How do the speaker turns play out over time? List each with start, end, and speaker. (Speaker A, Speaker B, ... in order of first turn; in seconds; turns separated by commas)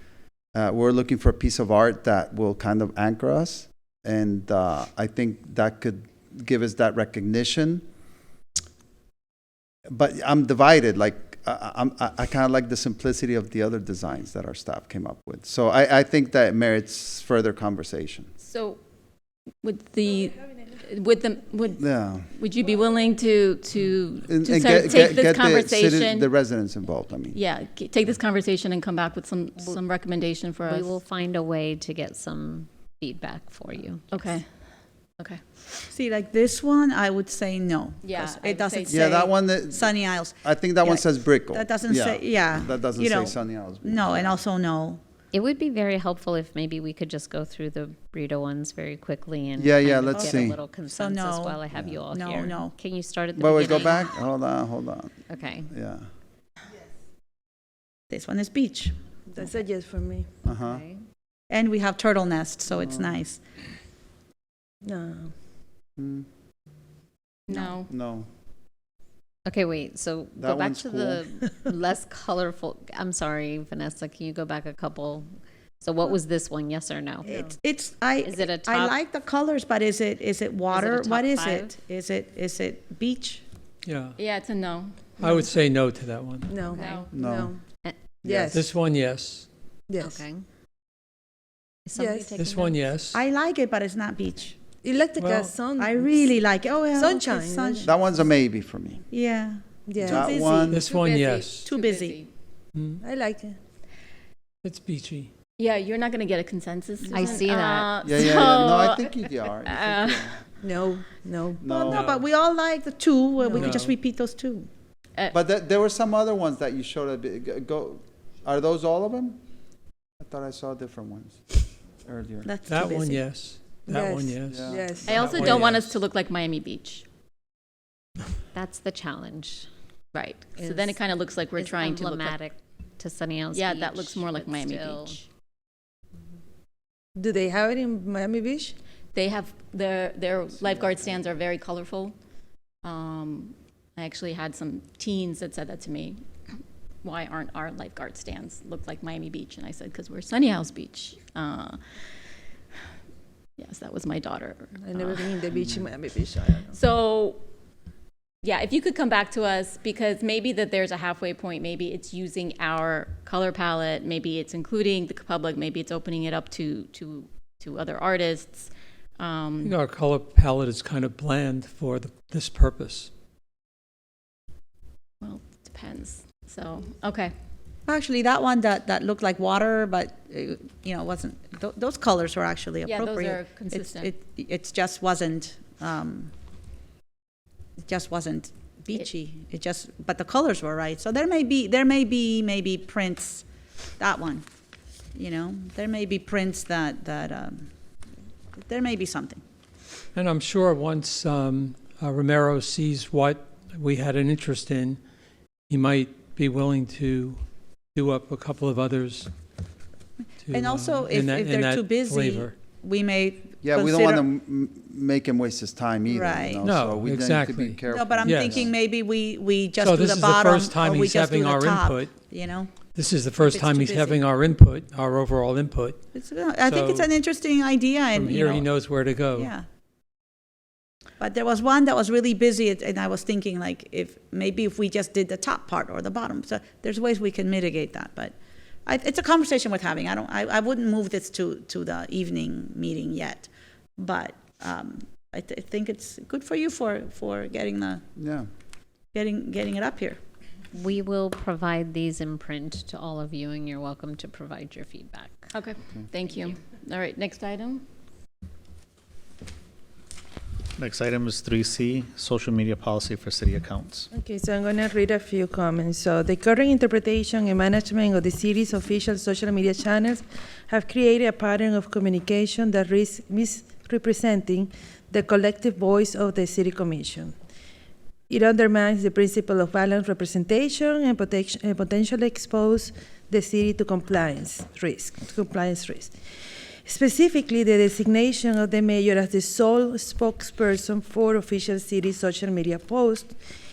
Speaker A: 0.5-7.8, Speaker A: 9.9-18.3, Speaker B: 18.4-18.8, Speaker B: 19.6-26.3, Speaker A: 21.8-22.3, Speaker A: 24.3-27.4, Speaker B: 27.3-31.0, Speaker C: 30.6-34.2, Speaker B: 34.1-34.5, Speaker D: 35.9-45.0, Speaker B: 38.0-39.2, Speaker A: 38.9-44.4, Speaker C: 45.3-54.2, Speaker A: 49.6-50.6, Speaker D: 50.1-52.8, Speaker A: 51.7-52.0, Speaker A: 53.4-56.1, Speaker D: 53.6-54.0, Speaker C: 55.3-55.7, Speaker D: 58.1-59.0, Speaker E: 59.3-60.3, Speaker A: 60.4-60.9, Speaker C: 60.6-61.0, Speaker D: 61.5-63.4, Speaker A: 62.7-63.2, Speaker E: 64.8-65.3, Speaker A: 66.0-66.3, Speaker B: 67.5-67.9, Speaker A: 67.5-68.3, Speaker C: 69.5-75.3, Speaker A: 70.4-71.3, Speaker C: 75.8-77.3, Speaker E: 77.2-77.5, Speaker D: 77.3-83.4, Speaker C: 78.2-79.0, Speaker C: 80.7-81.8, Speaker F: 83.8-84.2, Speaker B: 84.2-85.1, Speaker F: 85.2-86.6, Speaker E: 86.5-87.6, Speaker B: 86.7-87.1, Speaker A: 87.1-87.5, Speaker E: 88.2-88.7, Speaker A: 88.2-88.6, Speaker F: 88.5-89.5, Speaker E: 89.9-90.2, Speaker C: 91.9-92.8, Speaker E: 92.0-92.4, Speaker F: 92.3-93.2, Speaker D: 93.1-94.6, Speaker E: 94.8-96.3, Speaker F: 95.2-95.5, Speaker D: 95.8-97.9, Speaker E: 96.9-97.9, Speaker A: 97.8-99.0, Speaker D: 99.1-100.4, Speaker E: 99.9-100.8, Speaker A: 100.0-100.8, Speaker F: 100.7-101.7, Speaker B: 100.8-102.3, Speaker D: 101.7-102.2, Speaker F: 102.8-103.0, Speaker E: 103.0-103.6, Speaker F: 104.6-105.3, Speaker B: 105.6-110.3, Speaker C: 107.2-108.0, Speaker A: 108.0-110.4, Speaker E: 110.6-111.7, Speaker A: 111.6-112.1, Speaker D: 111.7-114.7, Speaker F: 111.9-112.2, Speaker E: 113.4-113.9, Speaker F: 113.5-113.9, Speaker A: 115.3-119.4, Speaker A: 120.2-121.4, Speaker A: 122.0-122.5, Speaker D: 122.5-123.2, Speaker F: 122.7-125.9, Speaker E: 123.9-125.6, Speaker A: 124.5-125.8, Speaker B: 125.0-127.0, Speaker C: 128.6-129.7, Speaker B: 130.1-132.4, Speaker C: 131.8-135.2, Speaker B: 133.5-135.2, Speaker E: 137.2-138.8, Speaker B: 139.1-142.2, Speaker A: 140.5-141.3, Speaker B: 142.8-146.2, Speaker B: 147.0-151.8, Speaker B: 153.6-155.4, Speaker E: 154.8-156.8, Speaker B: 156.7-157.4, Speaker B: 158.4-169.8, Speaker F: 169.6-173.1, Speaker B: 175.2-177.3, Speaker D: 177.9-186.3, Speaker B: 182.8-184.1, Speaker D: 187.9-193.5, Speaker D: 194.0-194.4, Speaker D: 195.1-197.7, Speaker D: 198.6-199.4, Speaker F: 200.2-205.0, Speaker F: 205.7-207.4, Speaker F: 207.9-209.3, Speaker F: 210.4-212.6, Speaker D: 210.5-214.3, Speaker A: 213.6-218.7, Speaker D: 216.1-216.6, Speaker F: 216.6-218.7, Speaker D: 217.8-222.7, Speaker F: 219.8-222.1, Speaker F: 222.8-226.0, Speaker D: 223.4-224.2, Speaker D: 226.1-228.7, Speaker F: 226.6-227.1, Speaker F: 228.1-229.5, Speaker D: 229.3-229.7, Speaker D: 231.2-238.3, Speaker D: 238.9-248.0, Speaker A: 248.2-248.5, Speaker D: 249.1-250.2, Speaker C: 250.7-255.5, Speaker B: 255.5-257.9, Speaker G: 260.8-264.1, Speaker E: 264.1-277.3, Speaker E: 278.3-286.1, Speaker E: 286.9-293.4